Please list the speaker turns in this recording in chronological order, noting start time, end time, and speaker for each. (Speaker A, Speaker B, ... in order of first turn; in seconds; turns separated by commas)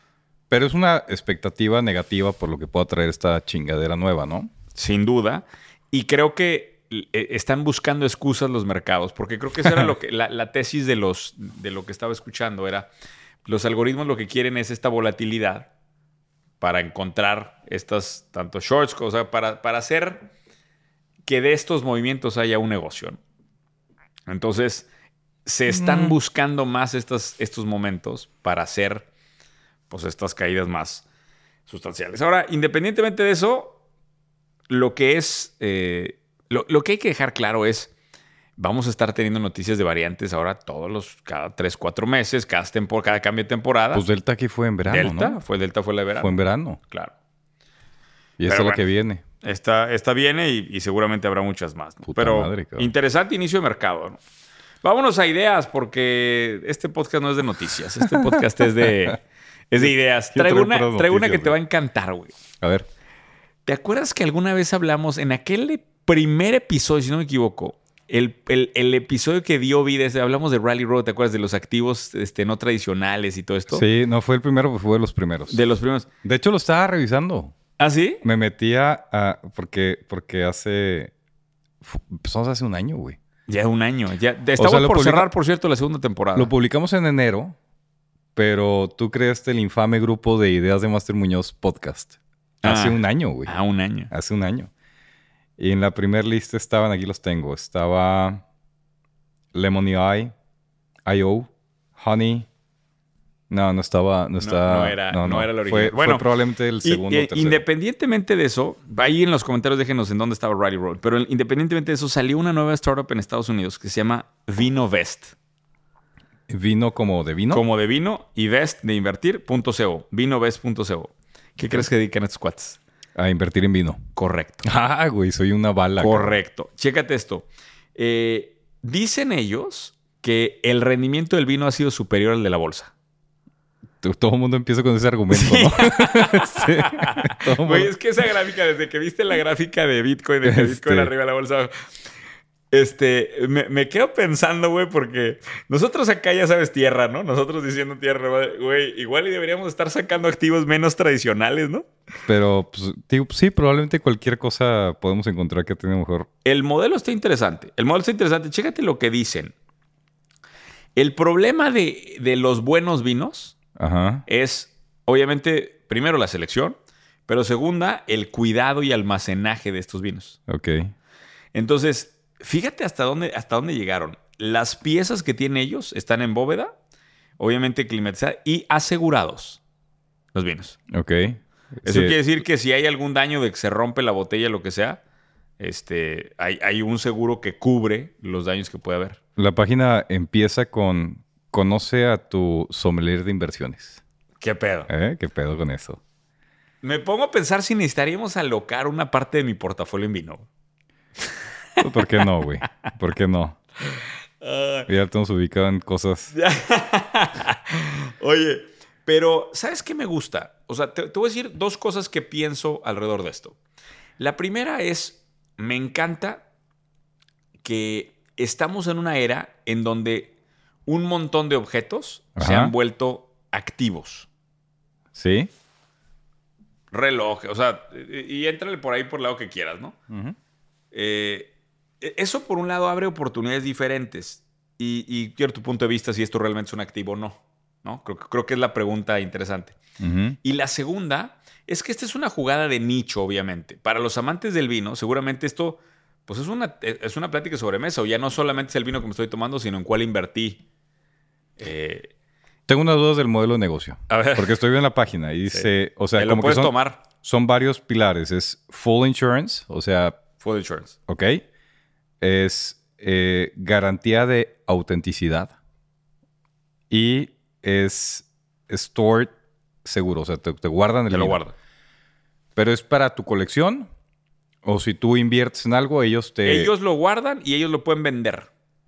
Speaker A: 0.5-4.5, Speaker B: 4.7-12.9, Speaker B: 13.4-15.7, Speaker B: 16.6-20.3, Speaker B: 21.2-23.2, Speaker B: 24.3-24.9, Speaker B: 25.4-29.1, Speaker A: 25.7-26.2, Speaker B: 29.9-31.1, Speaker B: 31.7-33.8, Speaker B: 34.7-37.9, Speaker B: 38.6-44.0, Speaker A: 43.9-45.4, Speaker B: 44.9-46.3, Speaker A: 46.2-46.8, Speaker A: 48.4-49.2, Speaker B: 48.5-48.8, Speaker B: 49.4-54.2, Speaker A: 52.0-52.9, Speaker B: 54.8-62.3, Speaker A: 58.1-58.4, Speaker A: 60.3-61.6, Speaker A: 62.6-62.9, Speaker B: 63.6-73.8, Speaker A: 73.7-75.6, Speaker B: 75.5-76.1, Speaker A: 76.2-77.5, Speaker B: 77.8-78.2, Speaker A: 78.2-81.1, Speaker A: 81.8-83.2, Speaker B: 83.5-86.5, Speaker A: 84.6-85.3, Speaker A: 86.3-87.5, Speaker A: 88.3-93.5, Speaker B: 92.6-94.1, Speaker A: 94.1-94.7, Speaker A: 95.6-98.4, Speaker A: 99.5-100.3, Speaker A: 101.0-102.5, Speaker A: 103.5-107.6, Speaker B: 104.4-106.3, Speaker B: 106.8-115.3, Speaker A: 116.5-117.6, Speaker B: 117.5-122.8, Speaker A: 123.2-124.0, Speaker B: 124.2-124.6, Speaker A: 124.6-126.3, Speaker B: 126.0-132.9, Speaker A: 134.0-137.9, Speaker B: 135.3-141.7, Speaker A: 140.4-141.1, Speaker B: 142.7-151.9, Speaker A: 152.3-156.3, Speaker B: 156.4-159.5, Speaker B: 160.9-163.6, Speaker A: 163.8-164.2, Speaker B: 164.3-170.4, Speaker A: 170.5-170.9, Speaker B: 171.5-176.7, Speaker B: 177.4-179.6, Speaker B: 180.3-180.8, Speaker A: 180.9-182.2, Speaker B: 181.8-185.0, Speaker B: 185.6-189.2, Speaker A: 189.4-194.0, Speaker B: 194.4-194.9, Speaker A: 194.9-196.0, Speaker B: 196.8-200.4, Speaker B: 201.2-202.2, Speaker A: 201.8-203.6, Speaker B: 204.4-204.9, Speaker A: 204.9-206.3, Speaker B: 206.3-213.6, Speaker B: 214.2-216.4, Speaker B: 217.6-220.3, Speaker B: 220.8-224.3, Speaker A: 222.4-222.7, Speaker A: 225.1-225.5, Speaker B: 226.9-229.9, Speaker A: 230.1-230.3, Speaker B: 230.9-239.8, Speaker A: 240.0-240.4, Speaker B: 240.4-250.6, Speaker B: 251.6-252.1, Speaker A: 252.7-260.2, Speaker B: 254.1-254.6, Speaker B: 255.5-257.0, Speaker B: 260.4-260.9, Speaker A: 261.1-261.4, Speaker A: 262.2-265.5, Speaker A: 266.9-271.4, Speaker B: 271.1-271.5, Speaker A: 272.6-273.9, Speaker A: 274.6-276.7, Speaker B: 276.4-278.5